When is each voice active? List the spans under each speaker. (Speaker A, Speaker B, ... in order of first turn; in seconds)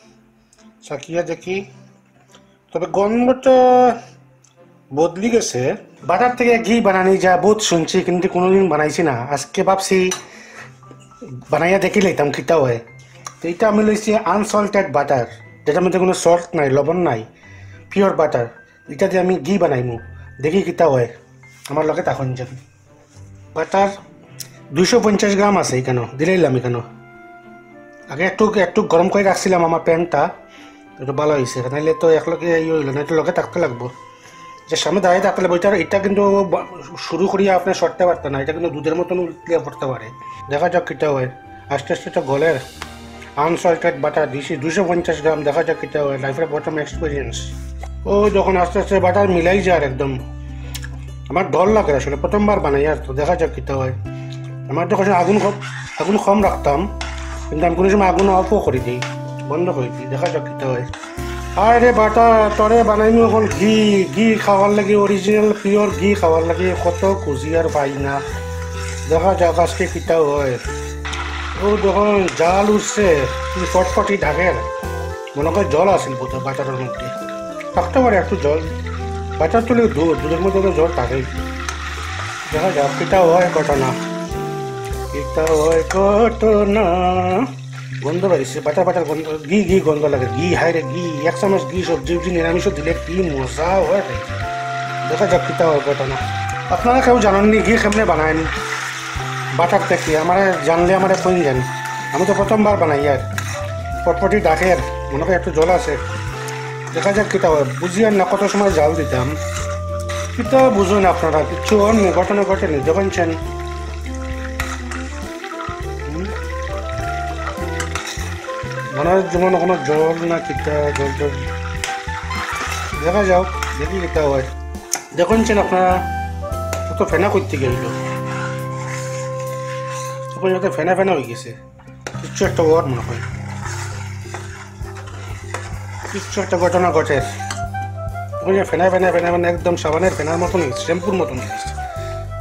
Speaker A: 0.8-1.6, 2.7-4.0, 4.9-10.1, 11.5-12.8, 13.4-17.3, 17.9-21.1, 21.7-22.6, 23.5-23.9, 24.7-26.8, 28.1-30.3, 31.0-33.9, 34.7-42.6, 43.4-50.2, 51.3-54.0, 54.7-56.9, 57.5-60.9, 61.5-68.2, 69.0-70.6, 71.5-74.7, 75.3-77.1, 77.7-78.7, 79.4-81.3, 82.5-84.0, 85.1-94.3, 95.0-98.5, 99.5-103.2, 104.0-106.1, 106.9-109.3, 110.3-113.4, 116.0-116.3, 118.9-121.5, 122.9-124.5, 125.1-126.1, 126.9-128.0, 130.3-131.6, 132.2-133.3, 136.1-137.3, 138.4-141.8